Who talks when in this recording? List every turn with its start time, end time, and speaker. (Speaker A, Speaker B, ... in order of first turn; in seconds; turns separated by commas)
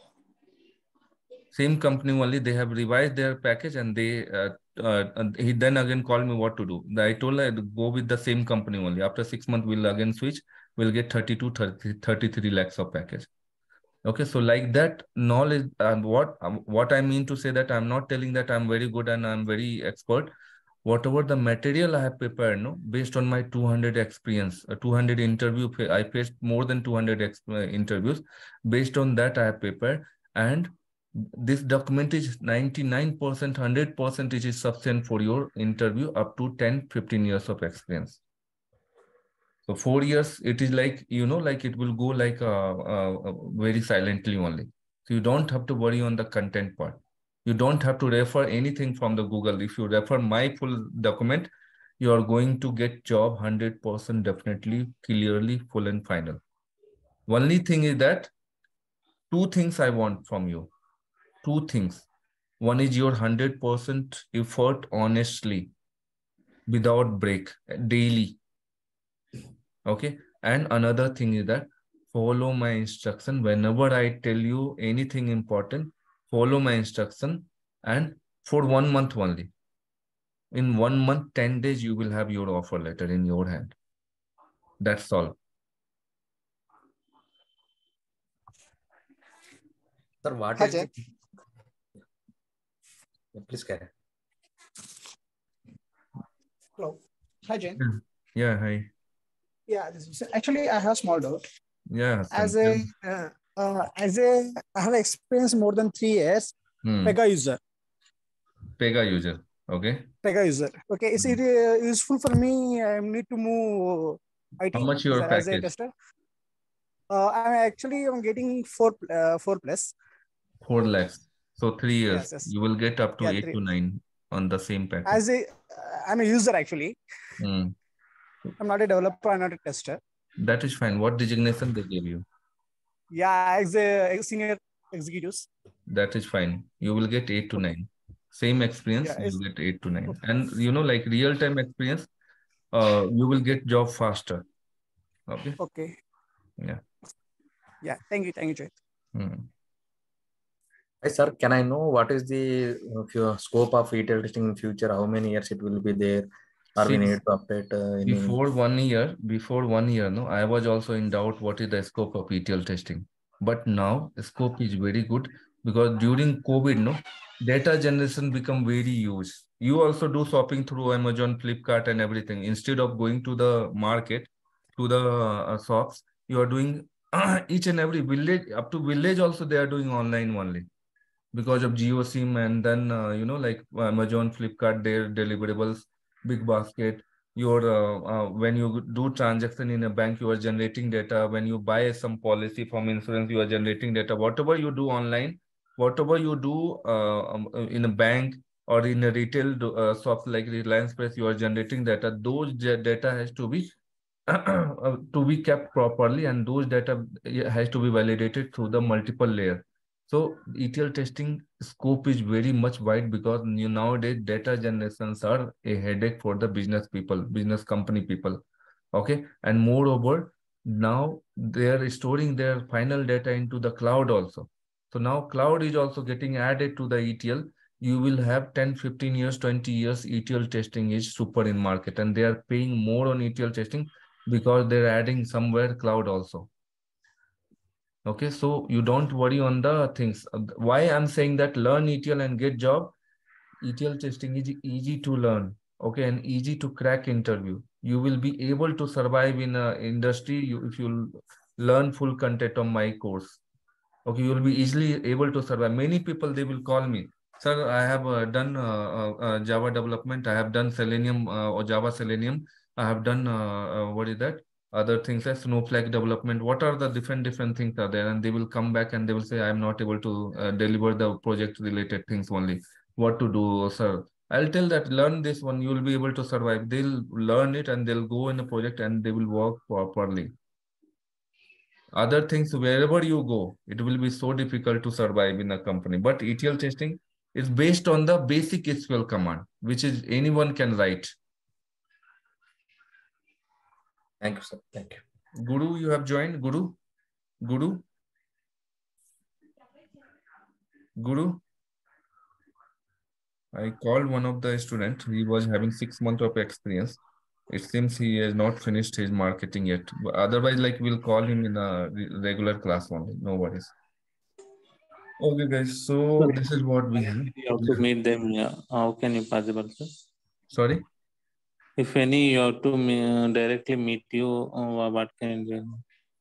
Speaker A: 1.5-13.3, Speaker A: 14.0-20.3, Speaker A: 20.8-38.2, Speaker A: 39.6-56.4, Speaker A: 57.3-58.3, Speaker A: 59.3-60.7, Speaker A: 61.4-62.0, Speaker A: 62.6-65.7, Speaker A: 66.7-68.4, Speaker A: 69.8-79.5, Speaker A: 80.5-83.7, Speaker A: 84.8-85.3, Speaker B: 90.2-90.9, Speaker C: 90.6-90.9, Speaker B: 93.3-93.9, Speaker C: 96.8-97.8, Speaker A: 97.8-98.9, Speaker C: 99.7-101.4, Speaker A: 101.9-102.9, Speaker C: 102.3-107.6, Speaker A: 106.8-107.2, Speaker A: 108.8-110.1, Speaker C: 110.2-115.9, Speaker A: 114.7-115.7, Speaker C: 117.1-119.9, Speaker A: 120.6-125.2, Speaker C: 122.1-122.5, Speaker C: 123.2-123.6, Speaker C: 125.0-127.0, Speaker A: 127.4-127.7, Speaker C: 128.6-130.0, Speaker A: 130.4-132.2, Speaker C: 133.1-135.5, Speaker A: 135.9-142.1, Speaker C: 139.0-139.4, Speaker A: 142.7-144.4, Speaker A: 145.3-145.6, Speaker C: 145.6-145.9, Speaker C: 147.8-148.8, Speaker A: 149.1-149.5, Speaker B: 151.0-158.3, Speaker A: 156.8-157.2, Speaker A: 158.0-180.7, Speaker A: 181.3-203.7, Speaker A: 204.3-236.5, Speaker A: 238.0-242.9, Speaker A: 243.6-253.4, Speaker A: 254.0-280.3, Speaker A: 281.9-291.1, Speaker B: 294.2-295.0, Speaker A: 295.4-296.8, Speaker A: 297.4-297.8, Speaker A: 301.0-301.4, Speaker A: 303.5-313.7, Speaker A: 315.2-317.8, Speaker D: 317.3-319.9, Speaker A: 320.5-320.8, Speaker D: 321.8-325.8